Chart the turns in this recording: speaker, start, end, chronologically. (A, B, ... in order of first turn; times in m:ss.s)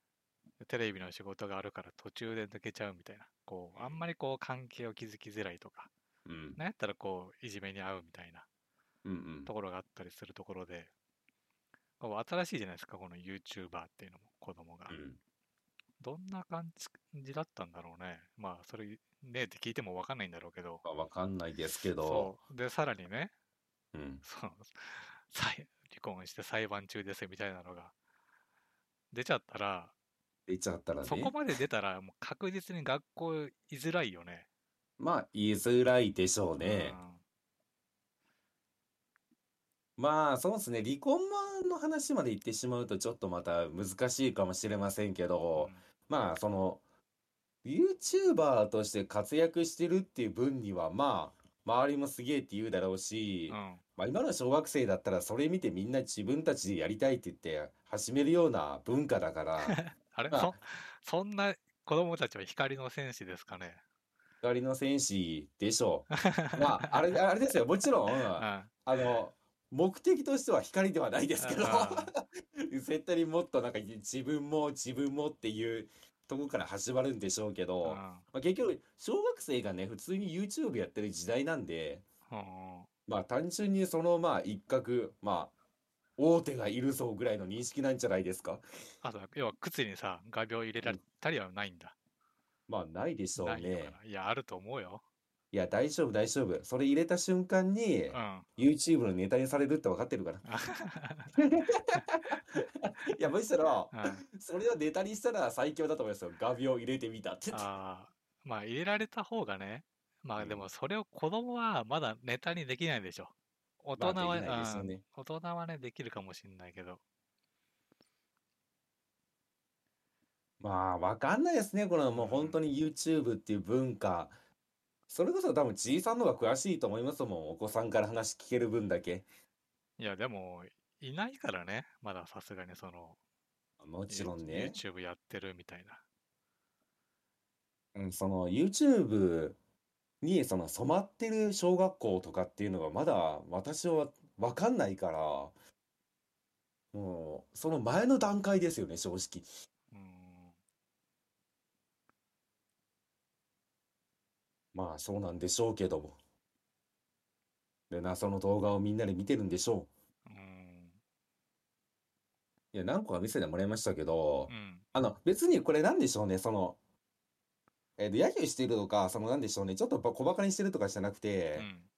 0:00.6-0:05.9 A
0:03.7-0:04.0 B
0:06.2-0:06.6 B
0:06.6-0:08.5 A
0:09.0-0:09.5 B
0:09.4-0:10.9 A
0:12.0-0:15.0 A
0:14.9-0:15.2 B
0:16.0-0:20.8 A
0:20.8-0:22.3 B
0:22.0-0:23.3 A
0:23.9-0:24.2 B
0:24.2-0:27.9 A
0:29.1-0:29.9 A
0:30.5-0:31.3 B
0:31.0-0:34.5 A
0:35.0-0:37.0 B
0:36.6-0:37.2 A
0:40.0-0:46.8 B
0:45.6-0:45.8 A
0:47.6-0:59.8 B
0:53.5-0:53.8 A
0:59.6-1:03.8 A
1:00.3-1:00.5 B
1:04.4-1:22.0 B
1:06.1-1:07.0 A
1:08.3-1:08.7 A
1:11.4-1:12.1 A
1:17.8-1:18.2 A
1:22.3-1:22.9 A
1:23.1-1:25.5 B
1:26.2-1:28.6 B
1:29.0-1:32.0 A
1:32.7-1:33.9 B
1:33.4-1:35.0 A
1:35.5-1:40.4 B
1:38.1-1:38.4 A
1:40.4-1:41.4 A
1:41.3-1:47.7 B
1:43.9-1:44.2 A
1:47.5-1:57.0 A
1:50.4-1:50.6 B
1:54.0-1:55.0 B
2:00.6-2:04.3 B
2:02.1-2:02.6 A
2:05.1-2:09.3 B
2:10.0-2:13.2 A
2:13.8-2:14.8 B
2:14.1-2:16.0 A
2:17.9-2:19.6 B
2:20.2-2:25.5 B
2:26.9-2:29.5 B
2:29.9-2:30.5 A
2:34.7-2:36.2 B
2:37.9-2:39.9 B
2:40.2-2:41.0 A
2:42.7-2:46.8 B
2:44.5-2:44.8 A
2:48.0-2:51.7 B
2:51.6-2:51.9 A